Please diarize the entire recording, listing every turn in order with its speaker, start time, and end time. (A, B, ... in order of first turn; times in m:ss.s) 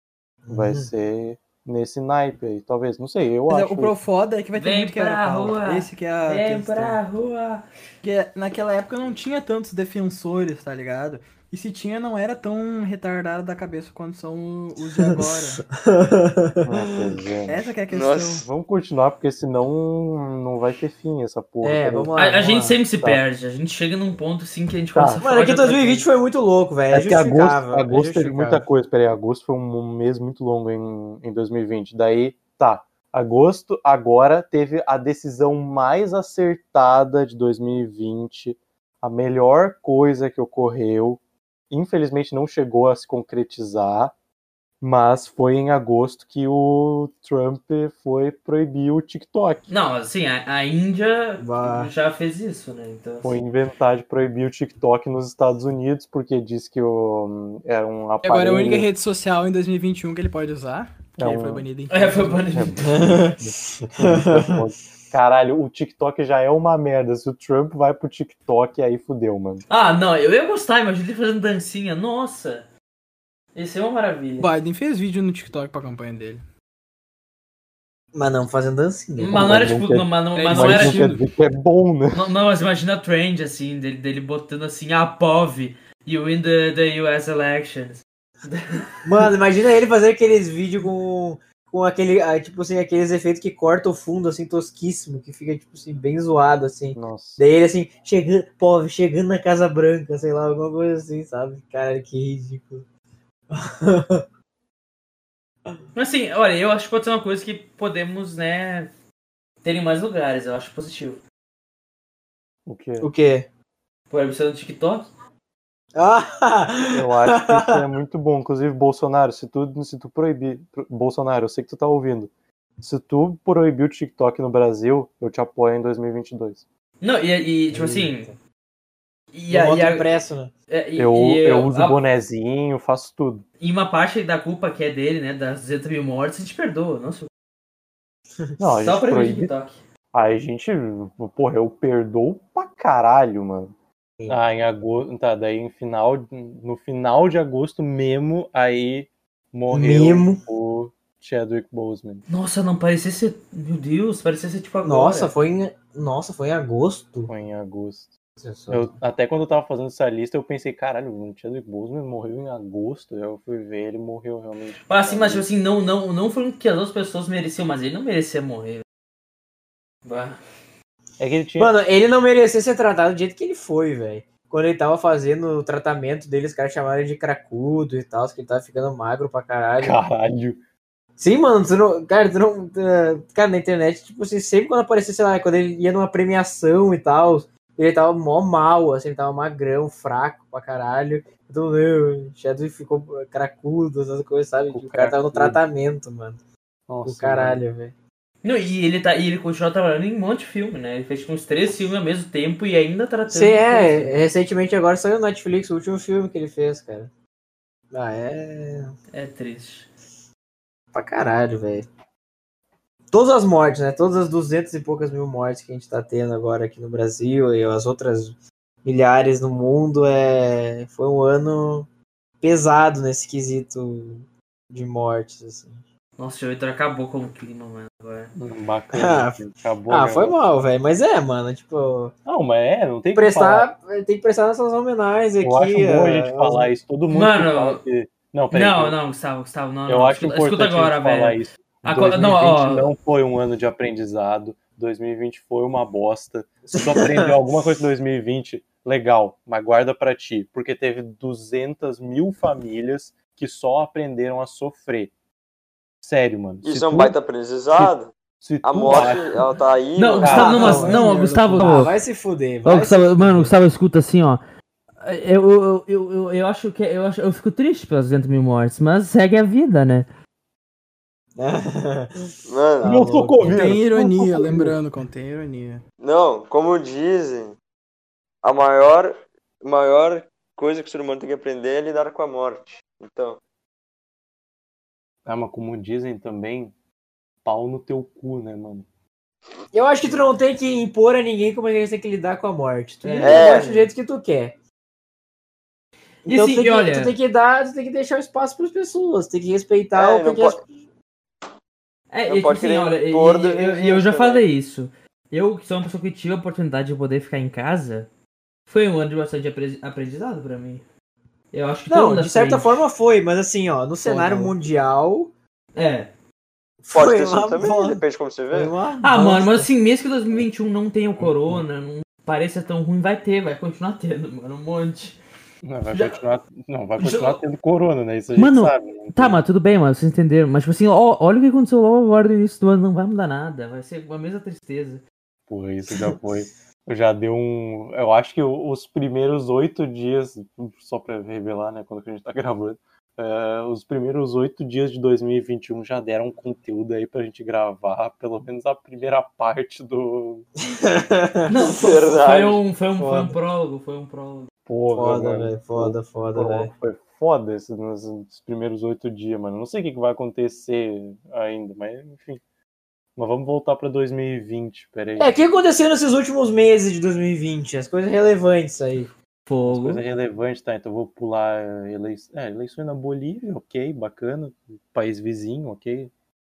0:00.4-0:00.9 A
0:00.5-0:04.0 B
0:03.5-0:07.0 C
0:04.6-0:07.6 D
0:08.0-0:15.6 C
0:15.0-0:16.7 A
0:16.6-0:17.7 B
0:17.5-0:18.5 C
0:17.9-0:18.4 E
0:18.4-0:22.1 B
0:21.6-0:22.8 A
0:22.2-0:26.1 D
0:24.9-0:25.2 B
0:25.2-0:28.6 A
0:26.9-0:44.1 B
0:44.8-0:49.6 B
0:49.7-0:53.4 D
0:51.4-0:51.9 A
0:53.2-0:58.9 B
0:58.2-1:02.5 C
1:01.2-1:01.7 B
1:01.9-1:02.9 D
1:02.5-1:09.6 B
1:02.9-1:04.6 A
1:09.7-1:12.7 D
1:13.5-1:14.5 D
1:14.4-1:16.4 C
1:18.1-1:19.5 A
1:19.2-1:21.1 D
1:19.3-1:22.3 B
1:20.3-1:21.2 C
1:22.1-1:28.9 D
1:29.0-1:42.9 A
1:37.0-1:37.4 B
1:43.5-1:44.2 A
1:46.0-1:48.9 D
1:49.6-1:51.2 D
1:52.7-1:53.1 B
1:53.0-1:53.5 A
1:54.1-1:55.1 D
1:56.0-1:57.8 A
1:56.9-2:06.6 B
2:07.0-2:08.3 D
2:07.8-2:08.3 A
2:09.3-2:10.1 D
2:09.5-2:10.5 A
2:10.7-2:12.0 D
2:11.0-2:13.5 B
2:13.6-2:17.3 D
2:18.6-2:19.5 B
2:18.8-2:19.8 D
2:20.1-2:23.7 B
2:24.3-2:32.2 B
2:29.7-2:30.4 A
2:32.3-2:35.3 D
2:34.8-2:37.3 A
2:37.3-2:38.1 B
2:38.4-2:39.0 A
2:38.7-2:45.5 B
2:44.9-2:48.8 D
2:50.0-2:50.4 D
2:51.2-2:51.8 B
2:51.6-3:00.0 A
2:59.8-3:00.6 B
3:01.2-3:16.4 A
3:14.7-3:15.6 B
3:16.9-3:17.6 B
3:17.0-3:18.0 A
3:18.4-3:24.2 D
3:23.3-3:27.1 A
3:27.9-3:28.9 A
3:29.1-3:29.9 D
3:30.9-3:31.9 A
3:33.1-3:41.9 A
3:42.4-3:45.8 A
3:46.2-3:48.3 D
3:48.4-3:50.5 B
3:48.9-3:52.1 A
3:52.2-3:53.7 B
3:53.1-3:56.7 A
3:55.4-3:59.0 B
3:57.1-3:57.8 D
3:58.5-4:02.9 D
3:59.9-4:15.1 B
4:06.7-4:07.4 A
4:16.0-4:17.2 B
4:16.6-4:20.6 E
4:17.7-4:19.5 B
4:20.0-4:22.0 D
4:20.2-4:20.6 B
4:20.3-4:23.6 A
4:20.4-4:21.9 C
4:22.6-4:24.4 D
4:25.0-4:30.1 D
4:31.4-4:33.6 A
4:32.5-4:33.0 E
4:32.8-4:34.8 B
4:33.4-4:35.8 C
4:36.0-4:37.6 E
4:38.4-4:43.4 E
4:45.2-4:46.7 B
4:47.4-4:48.9 B
4:49.7-4:54.6 A
4:53.0-4:53.9 D
4:53.2-4:53.7 E
4:56.2-4:57.2 D
4:56.3-5:00.7 A
4:59.9-5:00.6 E
5:02.1-5:08.1 D
5:02.3-5:04.4 E
5:08.7-5:10.9 D
5:11.5-5:12.8 D
5:11.9-5:15.3 A
5:15.8-5:16.1 D
5:16.8-5:19.7 A
5:16.9-5:18.7 E
5:19.0-5:25.2 D
5:21.2-5:21.6 B
5:25.6-5:29.4 B
5:25.9-5:26.2 D
5:27.0-5:27.4 D
5:28.4-5:35.0 D
5:35.5-5:50.4 B
5:50.6-5:51.5 A
5:51.5-5:54.5 D
5:51.7-5:52.6 E
5:53.0-5:53.4 A
5:54.7-6:02.4 B
5:55.0-5:56.7 A
6:03.2-6:05.4 B
6:05.2-6:09.1 A
6:09.5-6:10.0 D
6:09.7-6:16.1 B